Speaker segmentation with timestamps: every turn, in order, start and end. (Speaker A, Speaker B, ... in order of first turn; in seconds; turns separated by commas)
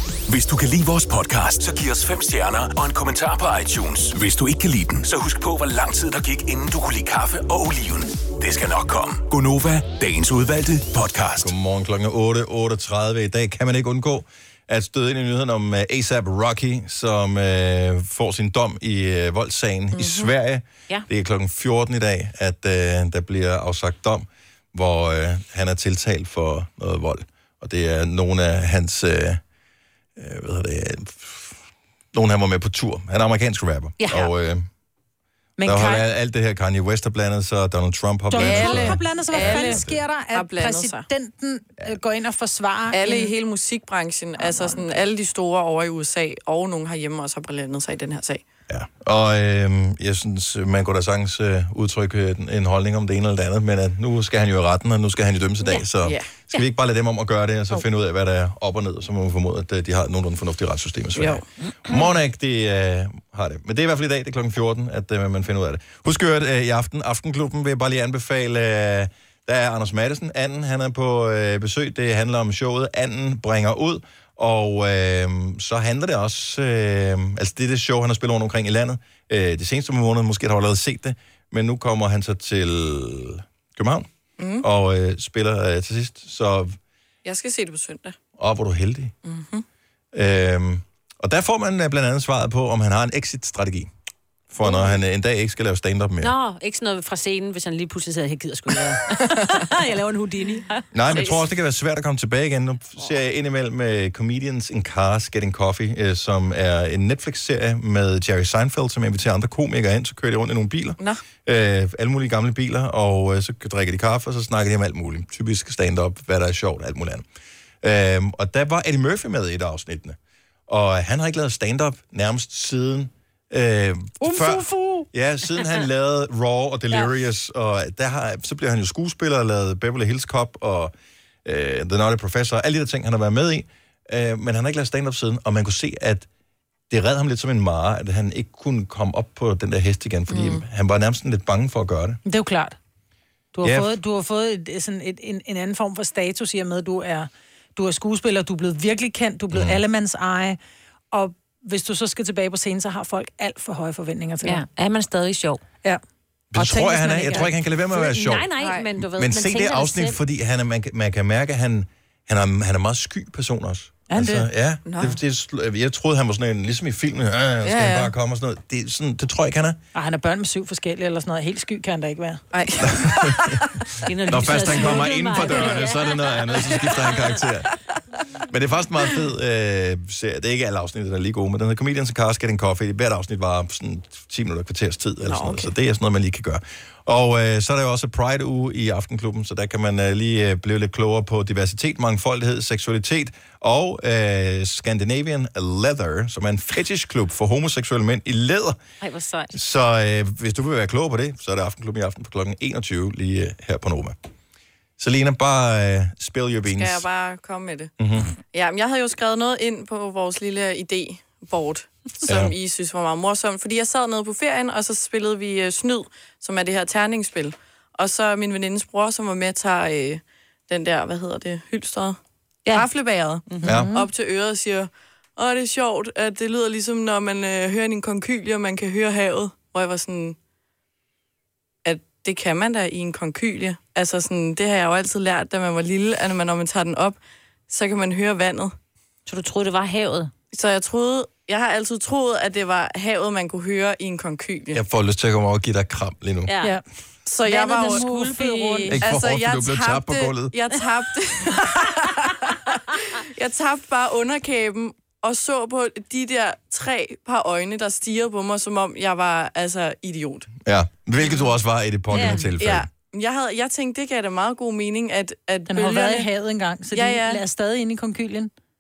Speaker A: 0.3-11.5, Speaker B: 11.4-29.4, Speaker C: 19.9-20.3, Speaker B: 30.1-31.6, Speaker B: 32.1-34.7, Speaker D: 34.0-34.3, Speaker E: 35.6-36.0, Speaker B: 35.6-40.0, Speaker E: 38.3-43.3, Speaker C: 38.4-41.1, Speaker C: 42.9-48.4, Speaker E: 44.4-44.8, Speaker B: 48.7-84.1, Speaker C: 56.0-56.3, Speaker C: 61.1-61.4, Speaker D: 61.6-62.1, Speaker C: 84.4-84.6, Speaker B: 84.6-86.8, Speaker C: 87.2-88.2, Speaker B: 88.4-89.1, Speaker C: 89.2-89.6, Speaker B: 90.1-93.9, Speaker B: 94.5-96.3, Speaker D: 96.2-100.8, Speaker B: 100.9-117.2, Speaker C: 101.1-101.4, Speaker B: 117.8-120.2, Speaker B: 120.7-130.9, Speaker E: 124.2-125.0, Speaker B: 131.4-136.3, Speaker B: 136.9-142.2, Speaker C: 140.3-140.6, Speaker E: 142.2-142.8, Speaker E: 143.5-150.6, Speaker B: 143.6-143.9, Speaker B: 149.5-149.8, Speaker E: 151.1-154.6, Speaker D: 154.4-155.6, Speaker B: 156.5-169.8, Speaker E: 156.6-157.5, Speaker D: 156.8-160.2, Speaker C: 158.6-158.9, Speaker E: 164.1-164.5, Speaker C: 164.8-165.2, Speaker C: 167.6-168.1, Speaker E: 169.9-172.4, Speaker C: 172.5-173.7, Speaker B: 172.8-173.6, Speaker D: 174.0-177.2, Speaker B: 174.3-177.7, Speaker B: 178.5-198.8, Speaker C: 185.2-185.7, Speaker D: 199.0-199.6, Speaker B: 199.5-204.2, Speaker B: 205.0-207.1, Speaker C: 206.7-207.9, Speaker B: 208.0-208.3, Speaker C: 208.5-222.2, Speaker B: 212.2-212.5, Speaker C: 222.7-230.3, Speaker D: 223.5-223.7, Speaker E: 223.6-224.0, Speaker B: 223.6-223.9, Speaker C: 231.8-237.2, Speaker C: 237.7-238.7, Speaker D: 239.2-240.3, Speaker C: 240.5-244.8, Speaker B: 244.7-246.5, Speaker D: 246.4-246.8, Speaker C: 247.2-260.5, Speaker E: 247.4-249.0, Speaker D: 247.5-249.0, Speaker B: 248.9-250.5, Speaker B: 260.6-262.9, Speaker D: 262.1-262.5, Speaker C: 262.6-266.3, Speaker E: 265.7-268.5, Speaker C: 266.9-267.4